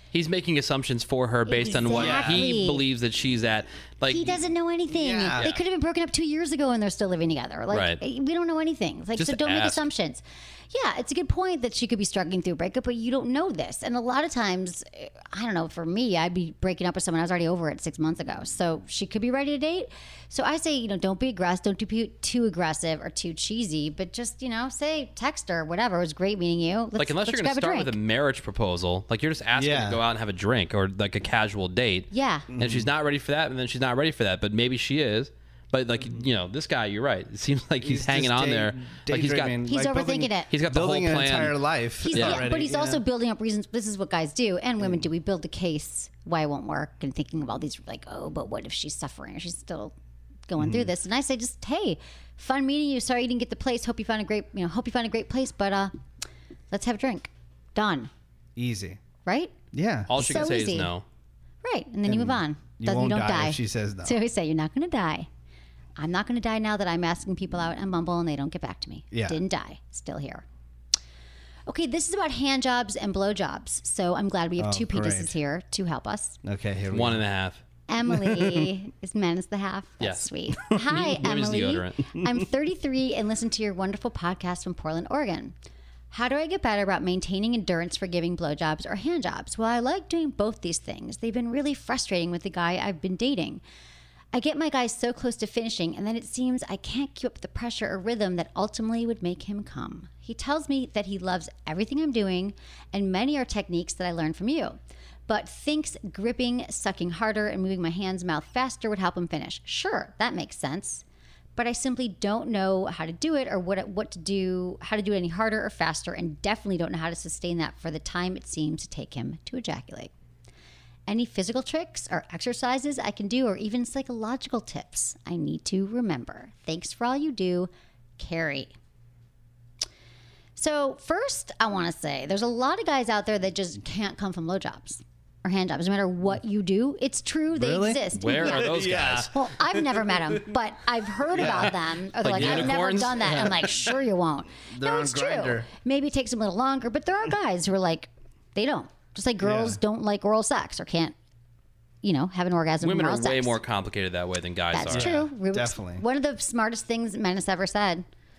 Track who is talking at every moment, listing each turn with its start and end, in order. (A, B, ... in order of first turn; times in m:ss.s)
0:00.1-0:04.4 A
0:01.5-0:02.8 B
0:01.9-0:02.5 C
0:04.1-0:28.0 B
0:04.9-0:05.5 C
0:07.7-0:08.0 A
0:09.2-0:09.9 A
0:27.0-0:39.6 A
0:29.6-0:30.0 C
0:32.1-0:32.5 B
0:32.5-0:32.9 C
0:37.8-0:43.0 C
0:39.7-0:40.5 B
0:40.5-0:41.6 A
0:42.0-0:50.0 B
0:42.1-0:42.4 A
0:50.5-0:56.0 B
0:50.6-0:50.9 C
0:56.7-0:58.1 B
0:58.6-0:59.0 C
0:59.3-0:59.5 B
0:59.7-1:00.4 C
1:00.1-1:01.0 A
1:00.1-1:00.9 B
1:01.6-1:05.3 B
1:02.1-1:04.2 C
1:06.0-1:10.4 B
1:09.1-1:09.4 C
1:11.7-1:16.4 B
1:14.6-1:15.3 C
1:16.4-1:17.2 C
1:16.9-1:17.6 A
1:17.9-1:25.6 B
1:18.1-1:18.7 C
1:20.0-1:22.0 A
1:26.1-1:33.6 B
1:34.3-1:44.8 B
1:45.3-1:51.0 B
1:51.6-2:00.1 B
2:01.1-2:08.7 B
2:10.6-2:31.2 B
2:17.5-2:20.4 C
2:18.2-2:19.3 A
2:21.2-2:24.0 C
2:22.2-2:23.6 A
2:24.7-2:25.7 C
2:29.4-2:29.8 C
2:32.0-2:33.6 B
2:32.8-2:35.1 A
2:34.7-2:38.0 B
2:34.9-2:36.0 C